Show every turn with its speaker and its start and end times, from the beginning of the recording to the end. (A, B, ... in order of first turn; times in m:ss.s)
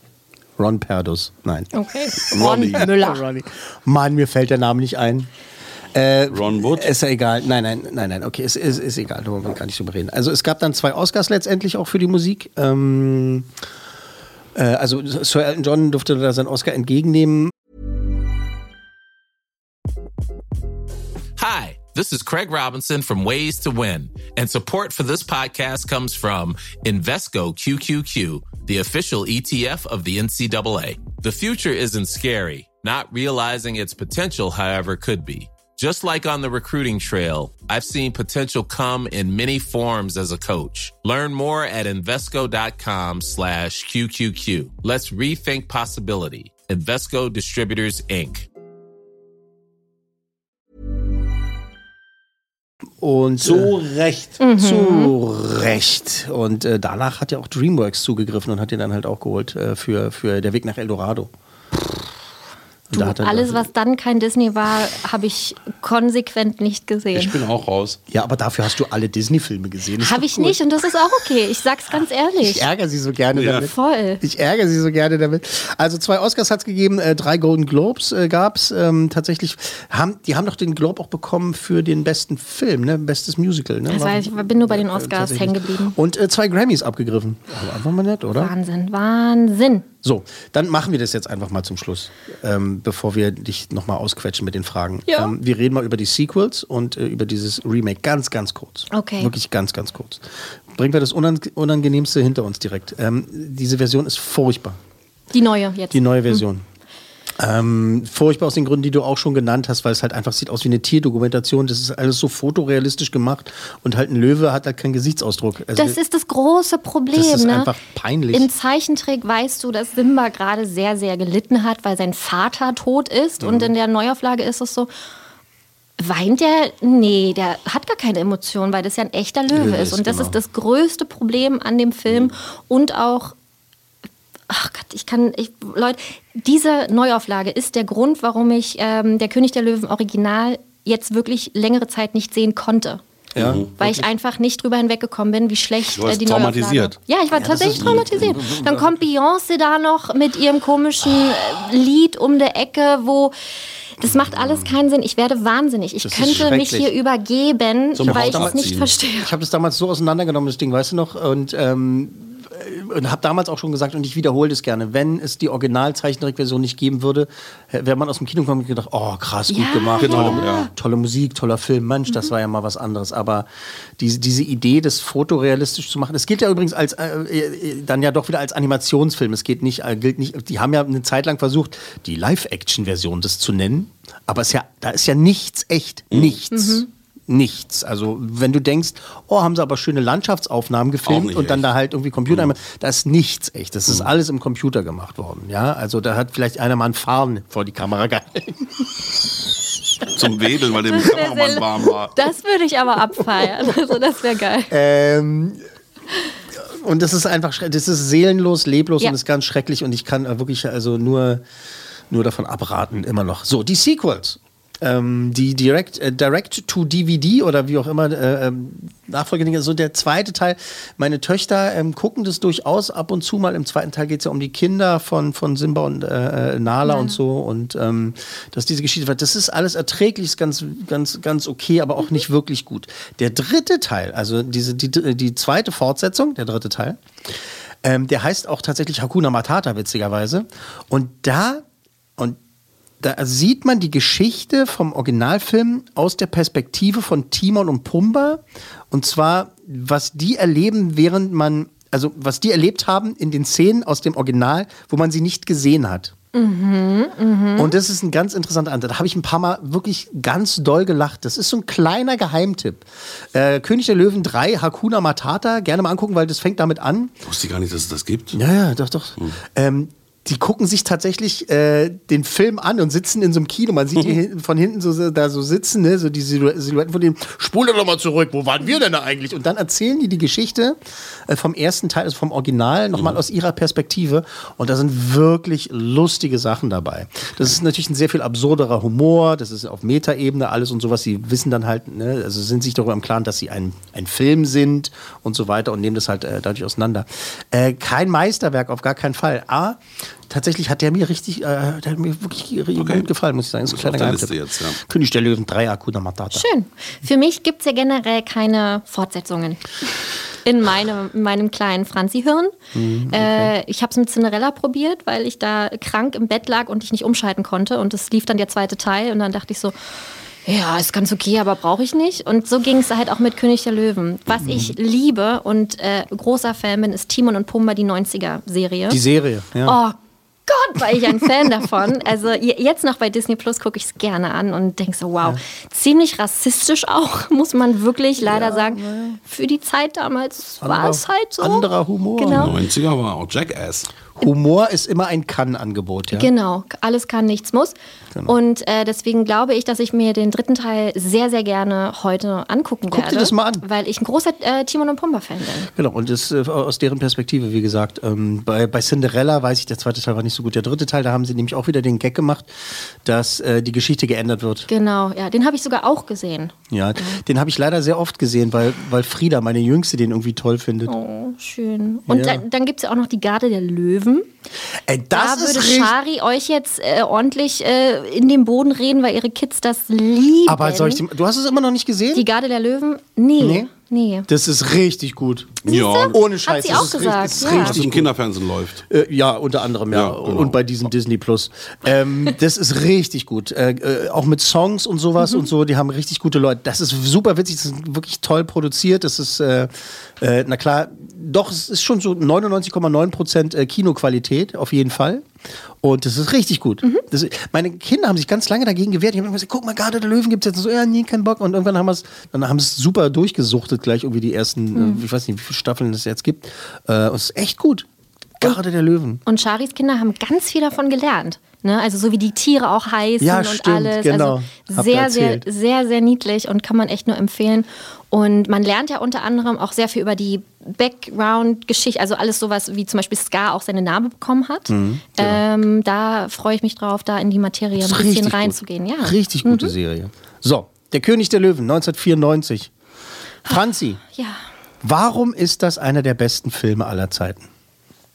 0:00.6-0:01.7 A
0:01.7-0:03.2 B
0:02.3-0:02.9 C
0:02.4-0:05.3 A
0:05.9-0:13.5 A
0:06.3-0:06.9 C
0:14.6-0:17.5 A
0:21.4-0:48.5 D
0:53.0-0:53.8 A
0:53.4-0:54.4 C
0:54.4-0:55.1 B
0:54.6-1:01.3 A
1:02.9-1:03.7 A
1:02.9-1:07.4 B
1:07.1-1:08.0 C
1:08.1-1:10.6 A
1:10.0-1:12.7 B
1:12.4-1:28.5 A
1:13.3-1:13.7 C
1:13.6-1:14.2 B
1:23.9-1:26.0 B
1:28.4-1:29.9 B
1:30.0-1:44.8 A
1:35.1-1:35.3 B
1:38.9-1:39.3 B
1:45.3-1:46.4 B
1:45.9-1:46.6 A
1:47.4-1:56.0 A
1:55.8-1:57.7 B
1:57.1-1:58.5 A
1:58.3-2:04.9 B
2:03.4-2:03.7 A
2:06.0-2:13.3 B
2:09.5-2:10.4 A
2:14.5-2:23.0 B
2:23.4-2:24.0 A
2:23.4-2:23.7 C
2:23.8-2:33.3 B
2:25.9-2:27.0 C
2:27.3-2:28.9 A
2:27.8-2:28.4 C
2:34.0-2:39.3 B
2:34.0-2:34.7 A
2:36.0-2:36.9 A
2:38.0-2:38.9 C
2:38.0-2:38.7 A
2:39.2-2:53.5 A
2:49.5-2:50.7 B
2:50.0-2:50.7 C
2:54.0-3:18.9 A
3:06.1-3:06.4 C
3:06.5-3:06.9 B
3:11.1-3:11.7 C
3:20.1-3:22.2 C
3:20.9-3:24.7 B
3:24.7-3:25.6 A
3:26.6-3:31.4 A
3:32.1-3:57.0 A
3:46.8-3:47.2 B
3:57.8-4:01.6 A
4:03.0-4:16.1 A
4:16.3-4:17.8 B
4:17.6-4:27.1 A
4:27.3-4:28.4 C
4:28.3-5:06.5 A
5:02.8-5:03.1 C
5:03.7-5:04.8 C
5:06.3-5:09.6 B
5:10.4-5:12.6 B
5:12.7-5:13.5 A
5:13.1-5:19.8 B
5:20.5-5:29.0 B
5:24.4-5:24.7 A
5:28.9-5:29.8 A
5:29.6-5:30.0 B
5:30.5-5:42.5 B
5:38.2-5:39.2 A
5:40.6-5:42.6 A
5:42.3-5:43.9 C
5:44.2-5:46.3 A
5:46.1-5:47.8 B
5:48.3-5:55.7 B
5:52.9-5:53.6 A
5:55.7-6:02.5 A
6:03.0-6:04.7 A
6:04.7-6:07.2 B
6:06.7-6:10.9 A
6:10.9-6:14.3 B
6:12.1-6:12.4 A
6:14.9-6:16.0 A
6:15.1-6:21.0 B
6:20.5-6:22.3 A
6:22.1-6:24.3 B
6:23.4-6:23.7 A
6:24.3-6:28.1 A
6:25.6-6:28.8 C
6:25.7-6:27.8 B
6:28.9-6:45.3 A
6:29.9-6:30.6 C
6:45.8-6:57.9 A
6:54.8-6:55.0 B
6:58.4-6:59.2 A
6:59.3-7:19.7 B
7:03.2-7:05.5 A
7:14.7-7:15.4 A
7:17.8-7:22.7 A
7:23.5-7:24.0 A
7:24.1-7:24.4 B
7:24.8-7:27.5 A